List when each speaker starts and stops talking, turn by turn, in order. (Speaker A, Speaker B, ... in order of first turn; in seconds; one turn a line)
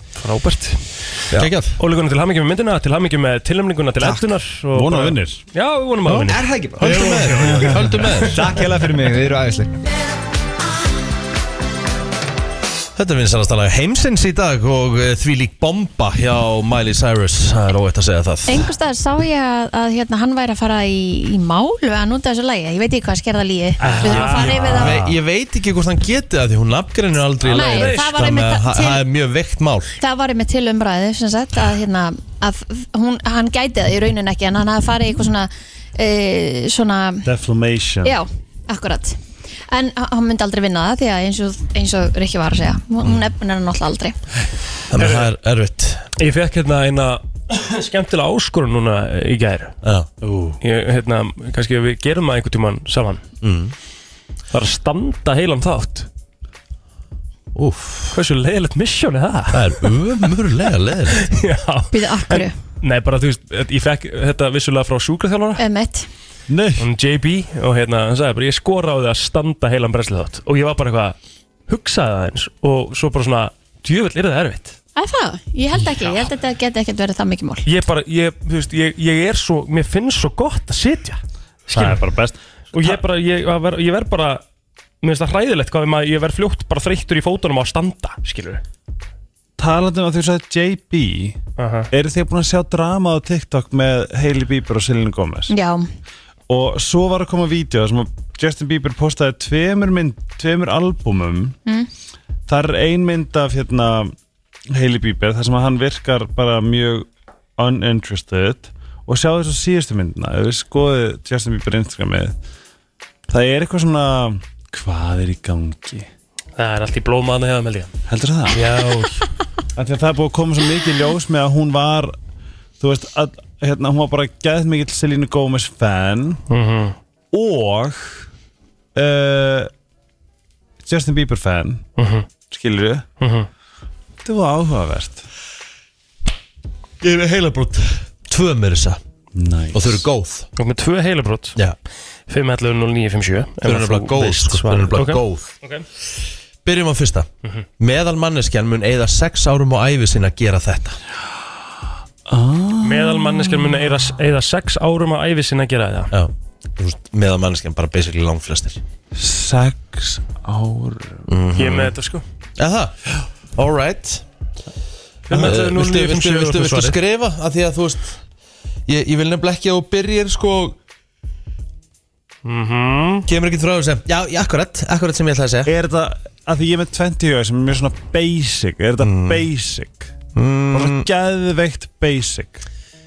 Speaker A: 0.2-0.8
Speaker B: 1.4-1.8
Speaker A: 1.8-8.4
Speaker C: 4.7-5.4
Speaker B: 6.1-8.4
Speaker D: 6.3-7.6
Speaker C: 7.2-8.0
Speaker D: 8.2-9.7
Speaker B: 12.9-18.7
Speaker E: 18.5-25.0
Speaker A: 23.8-25.1
Speaker B: 23.9-30.0
Speaker A: 27.4-28.1
Speaker E: 27.5-29.0
Speaker E: 30.0-37.3
Speaker C: 37.2-38.2
Speaker E: 38.0-39.2
Speaker E: 39.7-44.2
Speaker B: 44.9-46.1
Speaker A: 45.0-45.3
Speaker A: 46.2-49.8
Speaker B: 49.8-50.1
Speaker C: 50.2-50.6
Speaker A: 50.6-53.2
Speaker B: 53.4-53.7
Speaker A: 54.5-56.1
Speaker B: 57.5-58.2
Speaker A: 58.1-59.9
Speaker B: 59.5-61.3
Speaker A: 61.2-65.6
Speaker E: 61.9-62.5
Speaker E: 65.6-66.1
Speaker C: 66.5-66.8
Speaker A: 66.8-71.2
Speaker A: 71.7-74.8
Speaker E: 75.0-77.7
Speaker A: 77.6-82.0
Speaker C: 81.7-83.0
Speaker A: 82.7-84.4
Speaker A: 85.0-88.6
Speaker C: 89.6-91.4
Speaker A: 91.6-91.9
Speaker C: 91.9-95.5
Speaker E: 95.5-95.9
Speaker C: 96.5-101.6
Speaker C: 102.5-104.1
Speaker C: 104.7-112.3
Speaker C: 113.3-116.1
Speaker A: 116.6-117.9
Speaker C: 118.1-118.8
Speaker A: 118.5-119.2
Speaker C: 119.8-122.1
Speaker C: 122.8-126.4
Speaker A: 126.5-127.0
Speaker C: 127.3-128.2
Speaker C: 128.9-129.7
Speaker C: 130.8-131.8
Speaker A: 132.0-132.3
Speaker C: 132.5-133.1
Speaker A: 133.2-133.5
Speaker C: 134.2-135.2
Speaker B: 137.0-139.0
Speaker C: 139.4-140.0
Speaker B: 139.7-140.5
Speaker A: 140.6-141.6
Speaker A: 142.3-145.9
Speaker B: 143.6-145.5
Speaker B: 146.6-151.0
Speaker C: 152.3-153.8
Speaker A: 152.8-156.1
Speaker B: 156.1-158.8
Speaker C: 159.1-161.2
Speaker B: 161.3-161.9
Speaker A: 161.6-162.2
Speaker B: 162.6-164.2
Speaker A: 165.3-167.0
Speaker B: 165.3-168.2
Speaker B: 168.9-170.8
Speaker A: 172.4-173.2
Speaker B: 173.3-175.7
Speaker C: 175.7-180.2
Speaker B: 179.0-179.5
Speaker B: 180.3-181.1
Speaker C: 180.7-182.6